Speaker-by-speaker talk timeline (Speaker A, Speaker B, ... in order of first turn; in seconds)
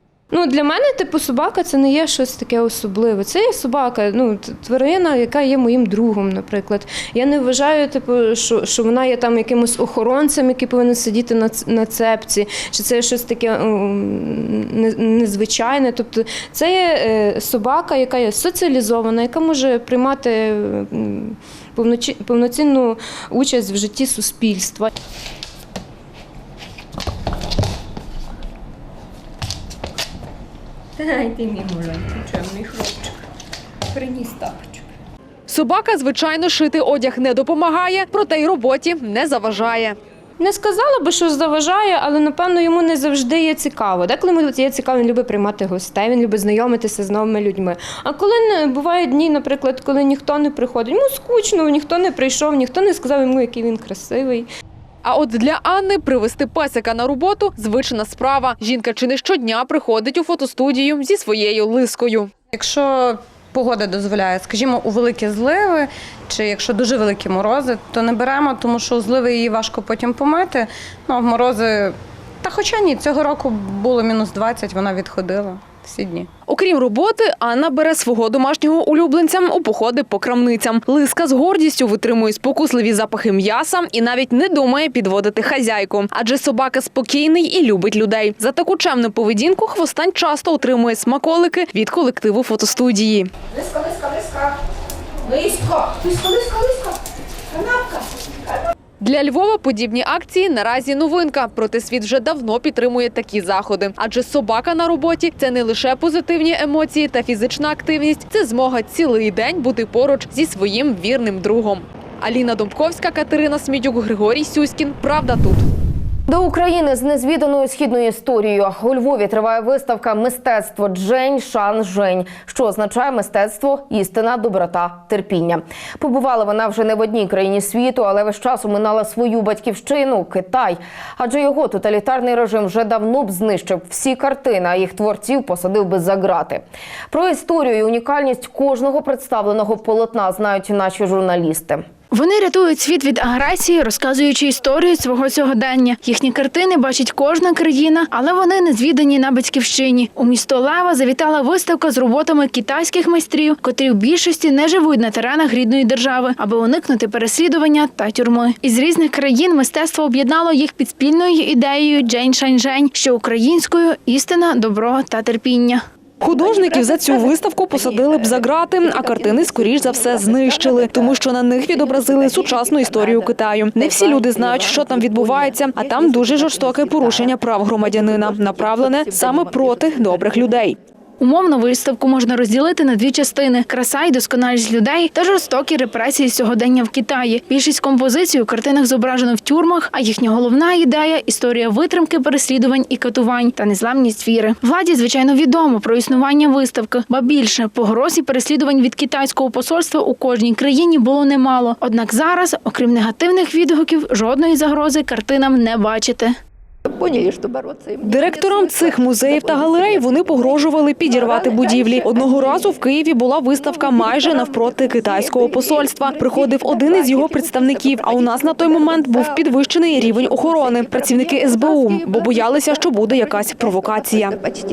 Speaker A: 0.3-24.9, 31.0-32.9, 34.0-34.6, 40.4-54.5
Speaker B: 35.5-40.0, 55.0-62.3, 76.5-93.3, 99.0-115.6, 166.2-180.8, 208.0-224.4
Speaker C: 62.5-76.3
Speaker D: 116.3-141.8
Speaker E: 142.1-165.8, 181.2-206.4